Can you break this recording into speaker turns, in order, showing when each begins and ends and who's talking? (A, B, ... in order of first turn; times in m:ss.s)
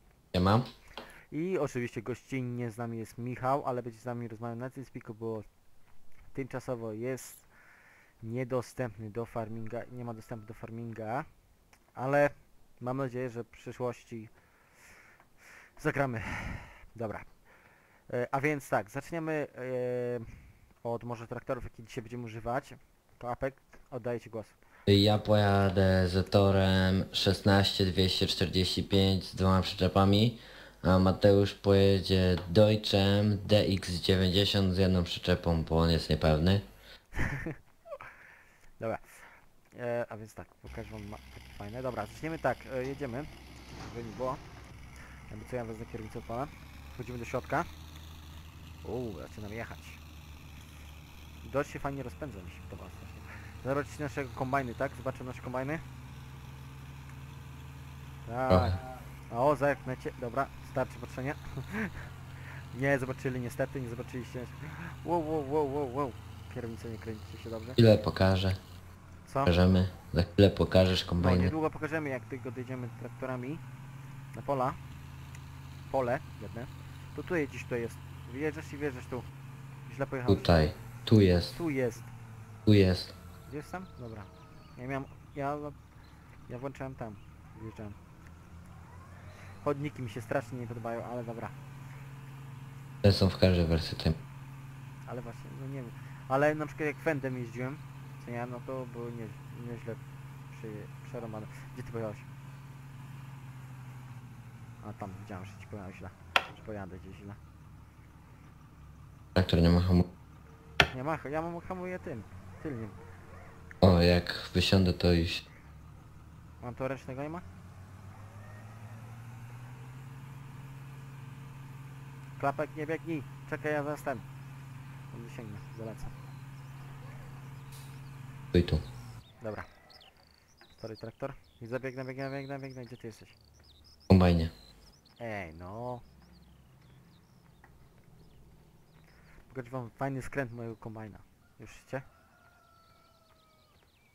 0:00.3-0:00.7 A
0:01.3-0:05.4 B
0:06.3-0:07.5 B
0:08.2-0:11.3 B
0:11.9-0:14.3 B
0:15.8-0:17.3 B
0:18.1-0:24.6 B
0:24.9-0:36.6 A
0:37.2-0:37.6 B
0:38.8-0:44.4 B
0:45.3-0:47.7 B
0:48.8-0:50.0 B
0:51.4-0:55.8 B
0:58.2-1:02.1 B
0:58.5-0:58.8 A
1:02.7-1:07.8 B
1:07.8-1:08.6 A
1:09.3-1:09.5 B
1:09.4-1:11.5 A
1:11.2-1:13.6 B
1:14.3-1:14.8 B
1:15.9-1:19.2 B
1:19.9-1:20.7 B
1:20.3-1:21.6 A
1:21.5-1:22.1 B
1:22.6-1:23.1 A
1:23.5-1:25.8 B
1:26.5-1:28.0 B
1:29.6-1:31.5 B
1:33.0-1:34.2 A
1:35.0-1:40.0 B
1:40.5-1:42.3 B
1:44.8-1:47.4 B
1:49.3-1:50.1 A
1:50.9-1:53.0 B
1:53.8-1:55.4 A
1:56.6-1:57.4 B
2:02.4-2:04.2 B
2:05.1-2:06.1 B
2:08.5-2:08.8 A
2:09.4-2:09.7 B
2:10.7-2:13.4 B
2:14.1-2:14.5 A
2:15.2-2:16.0 B
2:19.5-2:22.0 B